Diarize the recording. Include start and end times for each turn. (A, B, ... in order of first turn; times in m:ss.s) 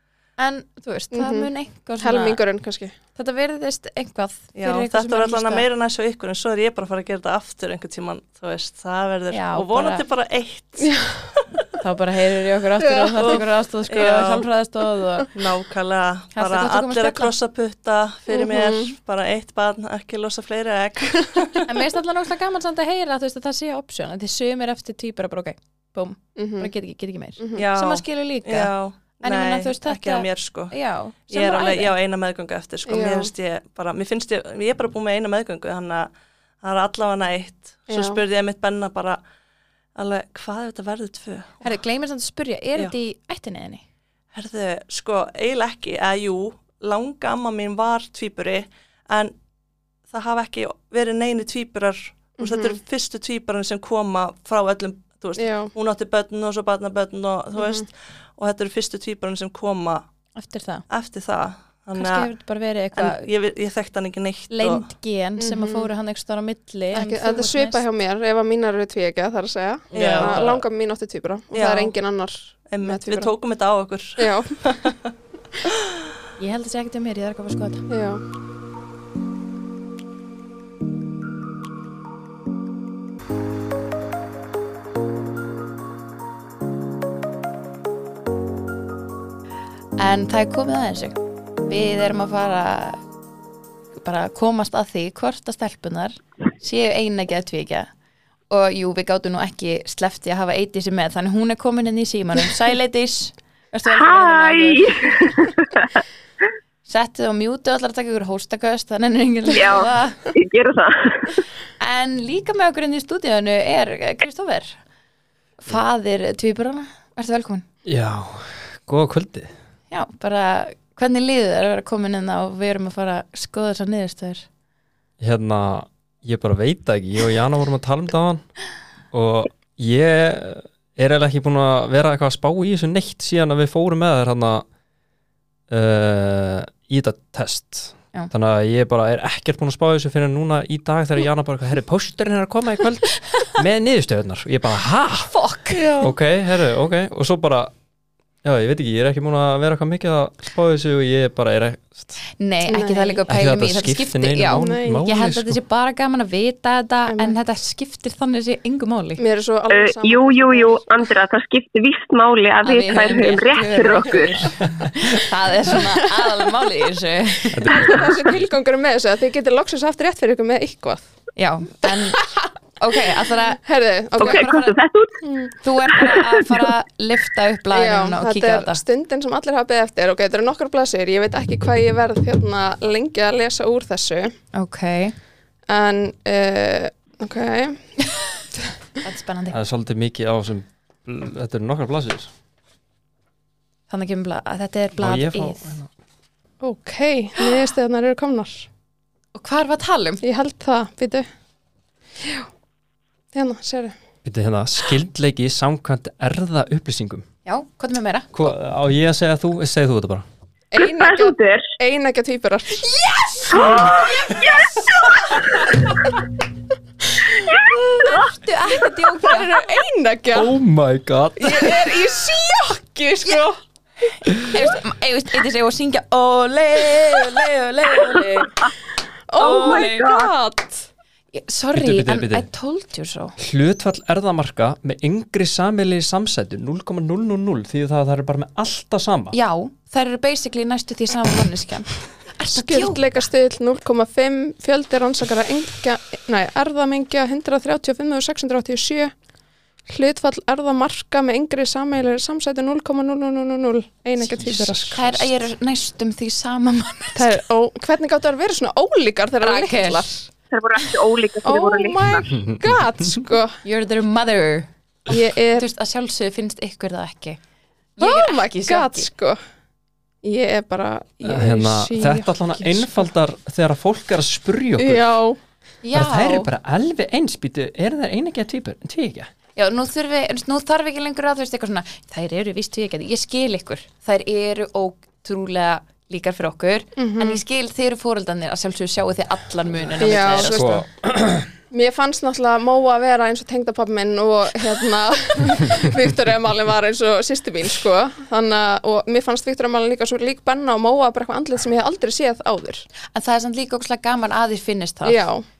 0:00.4-0:02.4 A
0:01.1-0:02.9 B
0:03.2-0:05.7 A
0:04.5-0:11.6 C
0:09.3-0:10.0 A
0:10.8-0:11.2 B
0:11.8-0:15.3 A
0:13.0-0:13.4 B
0:13.3-0:14.5 C
0:15.3-0:21.7 C
0:16.3-0:17.3 A
0:18.3-0:18.9 B
0:21.7-0:31.9 A
0:26.4-0:26.7 B
0:27.4-0:27.7 B
0:27.6-0:30.8 C
0:31.3-0:36.1 C
0:32.8-0:33.3 B
0:36.6-0:39.2 C
0:37.9-0:38.2 B
0:40.0-0:41.7 C
0:41.6-0:43.8 A
0:44.3-0:49.3 C
0:50.1-1:00.0 C
0:52.4-0:52.8 B
0:55.4-0:55.7 B
0:57.6-0:57.8 B
1:00.3-1:00.8 A
1:00.9-1:02.3 C
1:01.9-1:03.3 A
1:02.9-1:04.8 C
1:04.5-1:07.8 A
1:05.4-1:05.9 B
1:06.9-1:13.3 B
1:09.9-1:10.6 A
1:09.9-1:10.6 C
1:11.5-1:11.9 C
1:12.7-1:15.1 C
1:14.2-1:14.7 B
1:15.7-1:16.0 C
1:16.4-1:17.9 A
1:17.9-1:18.2 B
1:30.0-1:33.0 A
1:33.9-1:37.9 A
1:38.5-1:45.3 A
1:43.9-1:46.0 D
1:46.8-1:50.2 A
1:49.5-1:51.4 D
1:51.8-1:54.8 A
1:55.6-1:57.6 A
1:57.8-1:59.5 E
1:59.9-2:04.4 A
2:05.2-2:08.5 E
2:09.1-2:14.6 E
2:15.7-2:25.3 E
2:25.3-2:25.9 A
2:25.8-2:26.1 B
2:26.0-2:27.7 E
2:28.4-2:32.2 E
2:32.4-2:39.2 A
2:32.6-2:33.2 B
2:33.3-2:35.6 E
2:34.5-2:35.0 B
2:37.1-2:37.4 B
2:39.2-2:41.1 B
2:39.7-2:44.5 D
2:42.6-2:48.0 A
2:44.6-2:45.1 E
2:47.5-2:48.4 E
2:47.6-2:51.1 B
2:51.4-2:52.2 A
2:52.8-2:53.6 A
2:53.6-2:54.6 B
2:54.2-2:54.8 A
2:54.2-2:55.2 D
2:55.2-2:55.5 B
2:55.6-2:58.8 A
2:55.9-2:56.6 D
2:57.7-3:04.3 B
3:04.5-3:05.1 A
3:05.7-3:07.9 B
3:09.0-3:09.6 A
3:09.5-3:12.3 E
3:13.9-3:15.8 A
3:15.0-3:15.9 E
3:16.6-3:18.7 B
3:19.3-3:20.2 A
3:20.2-3:21.2 B
3:22.2-3:22.5 B
3:23.3-3:23.9 B
3:24.2-3:27.2 E
3:27.4-3:28.5 A
3:28.3-3:30.2 E
3:30.7-3:32.9 B
3:30.8-3:31.7 D
3:32.8-3:34.6 A
3:33.5-3:35.9 D
3:33.5-3:35.8 B
3:37.3-3:38.3 D
3:37.7-3:38.2 B
3:38.0-3:39.5 A
3:39.2-3:40.5 B
3:40.3-3:42.0 E
3:41.4-3:43.6 B
3:44.2-3:44.6 E
3:44.4-3:48.5 A
3:49.3-3:50.8 B
3:49.4-3:50.3 D
3:49.4-3:49.9 A
3:51.3-3:53.4 A
3:51.7-3:52.5 E
3:53.4-3:59.4 E
3:59.3-4:03.2 A
4:02.5-4:09.1 B
4:09.9-4:15.0 B
4:14.2-4:15.3 E
4:14.9-4:17.4 A
4:17.2-4:20.3 B
4:19.4-4:20.1 A
4:20.5-4:22.3 D
4:21.4-4:23.6 B
4:22.2-4:23.2 E
4:23.6-4:24.7 A
4:25.1-4:25.7 B
4:25.5-4:27.4 A
4:28.0-4:29.1 A
4:28.0-4:29.4 B
4:30.2-4:33.1 B
4:31.2-4:35.1 E
4:34.8-4:35.4 B
4:35.8-4:36.5 A
4:35.9-4:39.3 E
4:39.6-4:50.8 A
4:47.0-4:47.4 B
4:49.9-4:51.5 E
4:50.0-4:50.8 B
4:51.7-5:02.9 B
5:03.1-5:05.3 A
5:05.0-5:05.4 B